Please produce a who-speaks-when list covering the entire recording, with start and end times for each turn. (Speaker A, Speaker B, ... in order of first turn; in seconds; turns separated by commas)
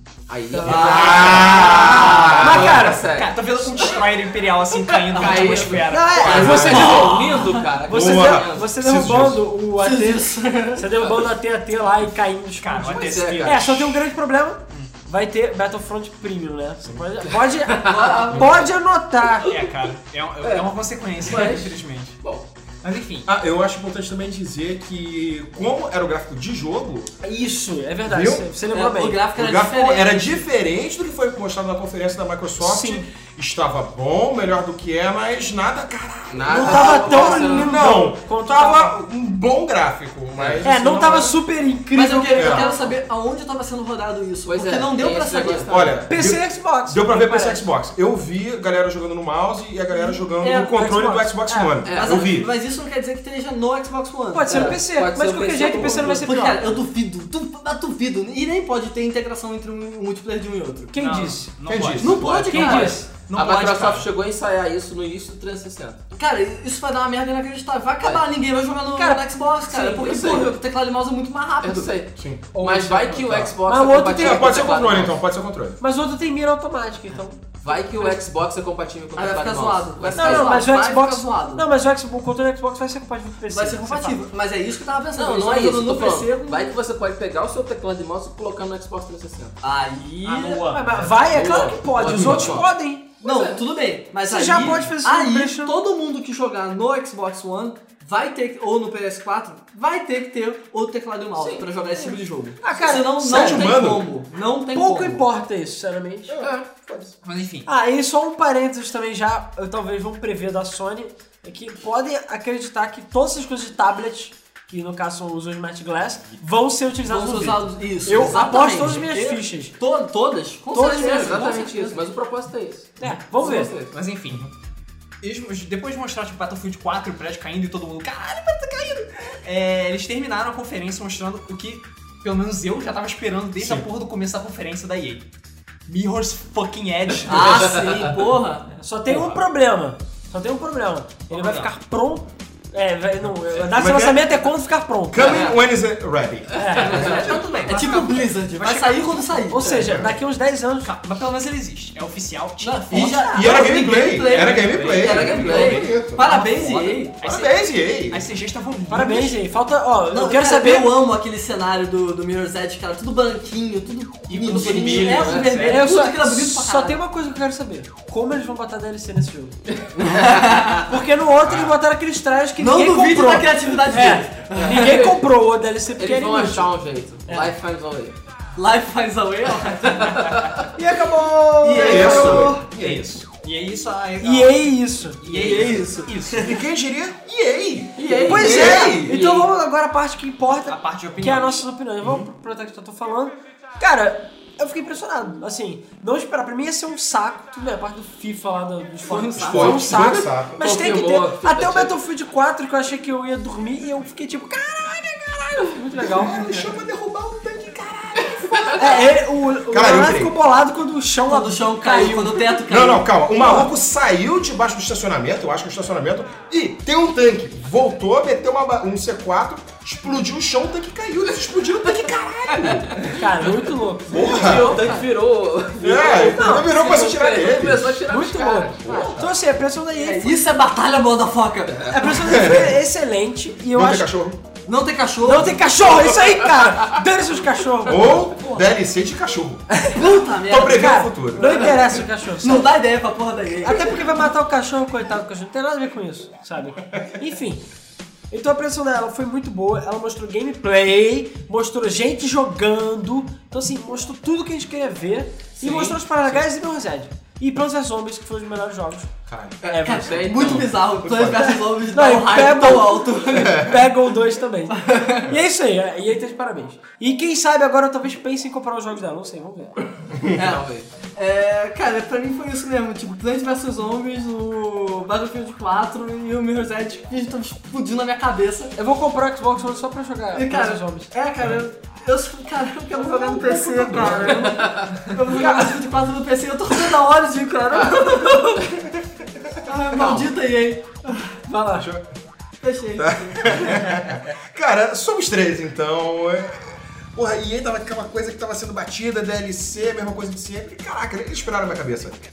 Speaker A: 0.3-4.0, Speaker B: 0.5-2.0, Speaker C: 0.6-1.1, Speaker D: 0.6-2.9, Speaker E: 1.6-6.6, Speaker C: 2.3-3.0, Speaker A: 5.1-8.7, Speaker B: 5.1-7.7, Speaker C: 5.8-19.6, Speaker D: 6.1-7.0, Speaker D: 7.9-9.4, Speaker B: 9.8-10.9, Speaker E: 12.6-14.0, Speaker A: 12.8-13.8, Speaker A: 17.6-18.7, Speaker B: 17.9-18.7, Speaker E: 19.4-22.1, Speaker A: 20.4-22.5, Speaker E: 22.8-23.3, Speaker D: 23.3-27.1, Speaker C: 27.2-29.3, Speaker D: 28.1-28.5, Speaker B: 28.7-30.5, Speaker D: 29.4-41.3, Speaker C: 32.6-33.1, Speaker A: 36.3-37.9, Speaker B: 36.5-37.8, Speaker C: 36.5-38.9, Speaker A: 40.3-40.6, Speaker C: 40.6-42.8, Speaker B: 41.0-41.3, Speaker B: 41.9-46.0, Speaker D: 42.3-42.7, Speaker A: 44.5-46.0, Speaker D: 45.7-52.5, Speaker C: 46.1-47.6, Speaker B: 50.0-50.8, Speaker C: 50.7-51.9, Speaker A: 51.8-52.3, Speaker B: 51.9-54.8, Speaker C: 54.3-56.8, Speaker A: 54.5-56.3, Speaker B: 55.6-60.9, Speaker C: 60.9-63.1, Speaker E: 61.0-64.1, Speaker D: 61.7-62.3, Speaker B: 62.0-63.0, Speaker A: 63.3-66.0, Speaker B: 66.1-72.0, Speaker C: 68.9-69.3, Speaker A: 69.7-70.5, Speaker A: 71.6-75.2, Speaker D: 72.2-72.5, Speaker C: 72.5-74.7, Speaker D: 74.2-75.8, Speaker C: 75.8-77.5, Speaker A: 77.6-80.6, Speaker B: 79.2-81.7, Speaker C: 80.1-84.2, Speaker B: 83.5-86.8, Speaker A: 85.2-89.6, Speaker B: 89.6-91.2, Speaker C: 90.2-93.2, Speaker A: 91.3-92.7, Speaker A: 93.2-93.6, Speaker B: 93.2-105.3, Speaker C: 94.2-95.8, Speaker A: 101.4-101.7, Speaker C: 102.0-103.8, Speaker D: 103.2-104.0, Speaker C: 104.7-106.3, Speaker D: 106.3-107.1, Speaker A: 106.4-106.7, Speaker E: 107.2-107.7, Speaker C: 107.7-119.7, Speaker B: 117.0-122.0, Speaker C: 120.7-121.9, Speaker A: 121.0-123.9, Speaker C: 123.0-123.7, Speaker E: 123.9-124.5, Speaker E: 125.2-135.3, Speaker D: 133.6-133.9, Speaker E: 135.9-137.9, Speaker B: 137.3-138.7, Speaker C: 138.8-145.4, Speaker E: 139.1-139.4, Speaker E: 141.3-141.7, Speaker D: 143.7-144.3, Speaker D: 145.1-147.2, Speaker A: 145.2-145.5, Speaker C: 146.6-147.2, Speaker A: 146.7-147.3, Speaker E: 146.8-149.4, Speaker B: 146.9-150.0, Speaker C: 149.5-150.9, Speaker D: 149.8-150.1, Speaker E: 150.8-153.7, Speaker B: 152.6-157.2, Speaker D: 152.9-156.2, Speaker E: 154.3-159.4, Speaker A: 154.9-155.9, Speaker D: 157.2-158.3, Speaker C: 158.9-161.0, Speaker B: 160.1-167.0, Speaker E: 164.3-165.8, Speaker A: 164.5-165.7, Speaker C: 165.5-169.6, Speaker A: 169.7-170.2, Speaker B: 170.0-170.9, Speaker C: 170.8-176.7, Speaker E: 171.5-171.7, Speaker B: 172.6-175.0, Speaker A: 174.5-175.2, Speaker A: 176.0-178.2, Speaker B: 178.6-180.6, Speaker C: 180.8-182.5, Speaker B: 181.6-182.7, Speaker D: 181.7-183.0, Speaker E: 181.9-184.7, Speaker C: 184.2-185.6, Speaker E: 185.2-186.6, Speaker B: 185.3-186.6, Speaker D: 186.4-189.2, Speaker A: 188.0-189.4, Speaker B: 188.0-189.4, Speaker C: 188.2-206.7, Speaker E: 190.7-191.7, Speaker D: 192.0-192.3, Speaker A: 199.0-201.9, Speaker D: 199.4-200.6, Speaker D: 206.0-208.9, Speaker A: 208.2-208.8, Speaker C: 208.7-212.7, Speaker D: 209.7-210.4, Speaker B: 211.2-213.3, Speaker D: 212.7-223.1, Speaker C: 213.3-213.7, Speaker A: 222.6-223.2, Speaker C: 223.1-224.9, Speaker D: 224.1-224.8, Speaker A: 224.1-229.1, Speaker B: 224.1-225.1, Speaker D: 225.8-228.0, Speaker C: 228.1-230.4, Speaker D: 228.8-229.3, Speaker B: 228.9-229.2, Speaker B: 229.9-232.2, Speaker C: 231.9-234.1, Speaker D: 232.2-232.8, Speaker D: 233.7-234.4, Speaker B: 234.7-235.7, Speaker C: 235.2-238.3, Speaker A: 236.0-236.9, Speaker D: 237.8-239.7, Speaker B: 238.2-238.6, Speaker C: 239.7-242.7, Speaker B: 239.9-244.3, Speaker D: 240.5-241.7, Speaker C: 243.6-247.6, Speaker C: 248.3-259.1, Speaker A: 255.6-256.0, Speaker D: 259.3-259.6, Speaker A: 259.6-260.7, Speaker C: 259.7-260.1, Speaker B: 259.8-263.7, Speaker D: 261.0-261.6, Speaker C: 261.9-269.7, Speaker D: 263.3-263.7, Speaker B: 264.8-265.3, Speaker B: 270.3-278.8, Speaker A: 270.3-270.9, Speaker C: 278.8-281.1, Speaker B: 280.3-288.6, Speaker D: 283.1-284.4, Speaker C: 283.3-283.6, Speaker A: 284.0-285.1, Speaker C: 285.3-285.8, Speaker A: 287.7-288.8, Speaker B: 289.6-291.4, Speaker A: 289.9-290.3, Speaker C: 291.5-291.9, Speaker D: 291.8-292.0, Speaker B: 292.6-293.9, Speaker D: 293.0-302.2